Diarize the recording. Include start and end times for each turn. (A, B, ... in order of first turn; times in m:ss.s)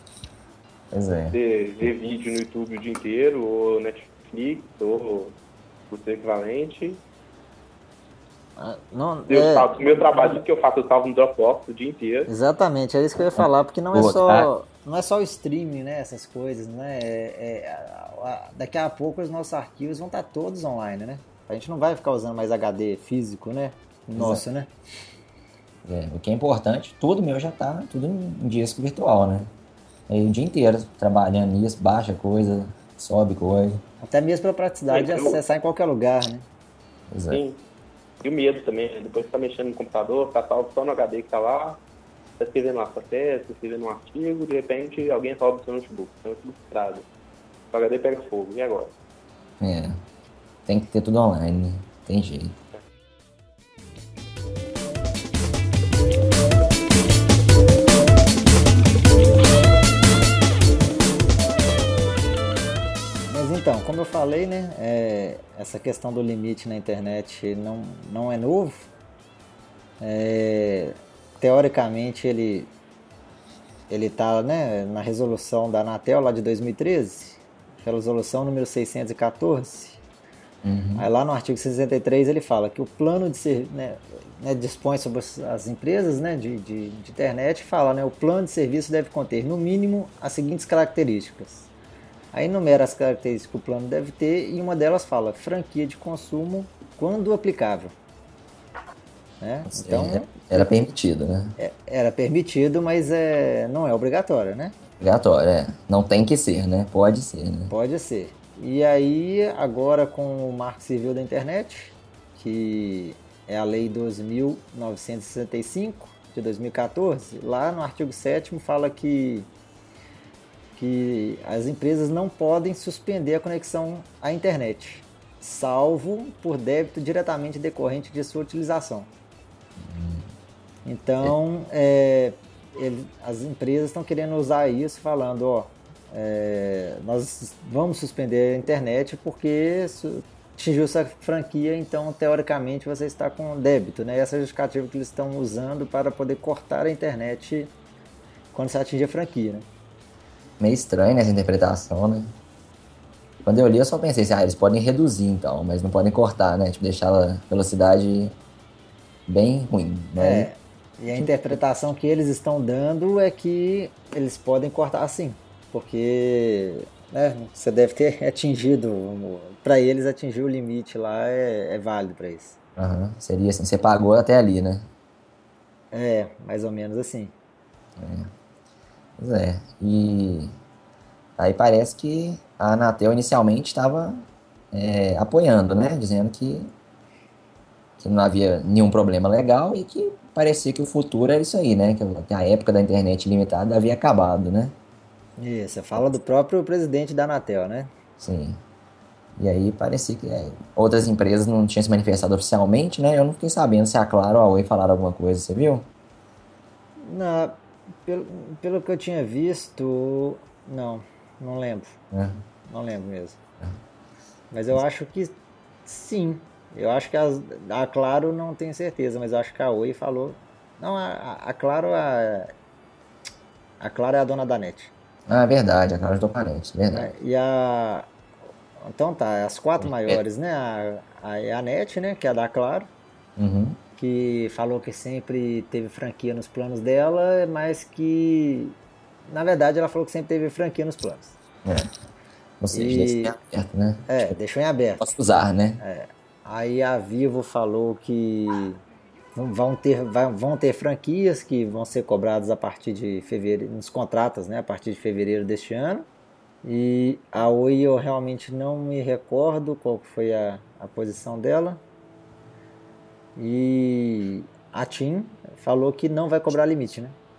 0:00.9-0:01.4 A
0:01.3-0:05.4 B
0:05.9-0:07.0 B
0:08.6-0:09.7 C
0:09.3-0:12.3 B
0:12.3-0:24.7 C
0:13.4-0:14.5 A
0:24.2-0:24.4 A
0:25.8-0:29.5 A
0:30.1-0:33.8 A
0:34.0-0:36.5 C
0:34.9-0:35.4 B
0:37.1-0:37.4 A
0:37.3-0:37.6 B
0:38.2-0:41.8 B
0:42.4-0:47.1 B
0:47.7-0:48.9 B
0:49.6-0:50.0 A
0:50.7-0:52.6 A
1:03.3-1:08.9 C
1:10.0-1:12.7 C
1:13.9-1:20.0 C
1:20.6-1:21.0 A
1:21.0-1:31.7 C
1:32.3-1:37.9 C
1:39.4-1:40.5 C
1:39.7-1:41.6 A
1:41.6-1:44.8 C
1:45.0-1:47.7 A
1:47.7-1:59.5 C
2:00.8-2:09.1 C
2:09.8-2:10.3 A
2:10.8-2:27.7 C
2:28.5-2:29.7 C
2:30.6-2:32.3 A
2:33.4-2:38.3 A
2:39.3-2:40.5 A
2:40.2-2:52.6 C
2:41.1-2:41.6 A
2:52.8-2:54.9 A
2:55.9-2:57.3 C
2:58.0-2:58.3 A
2:59.2-3:00.5 A
3:01.4-3:06.7 A
3:08.0-3:14.7 A
3:15.4-3:17.9 C
3:18.2-3:18.6 A
3:19.4-3:25.9 A
3:27.0-3:32.0 C
3:32.1-3:32.4 A
3:32.7-3:33.4 C
3:34.5-3:35.4 C
3:35.9-3:42.5 C
3:43.8-3:44.9 C
3:45.3-3:47.1 A
3:46.9-3:48.1 C
3:48.8-3:52.9 C
3:49.8-3:50.2 A
3:53.4-3:53.8 A
3:54.0-3:58.8 C
3:59.3-4:01.4 C
4:01.6-4:01.9 A
4:02.6-4:04.4 A
4:02.7-4:03.4 C
4:04.1-4:05.2 C
4:05.0-4:05.8 A
4:05.8-4:08.8 C
4:09.4-4:16.1 C
4:16.6-4:21.8 C
4:23.4-4:27.2 C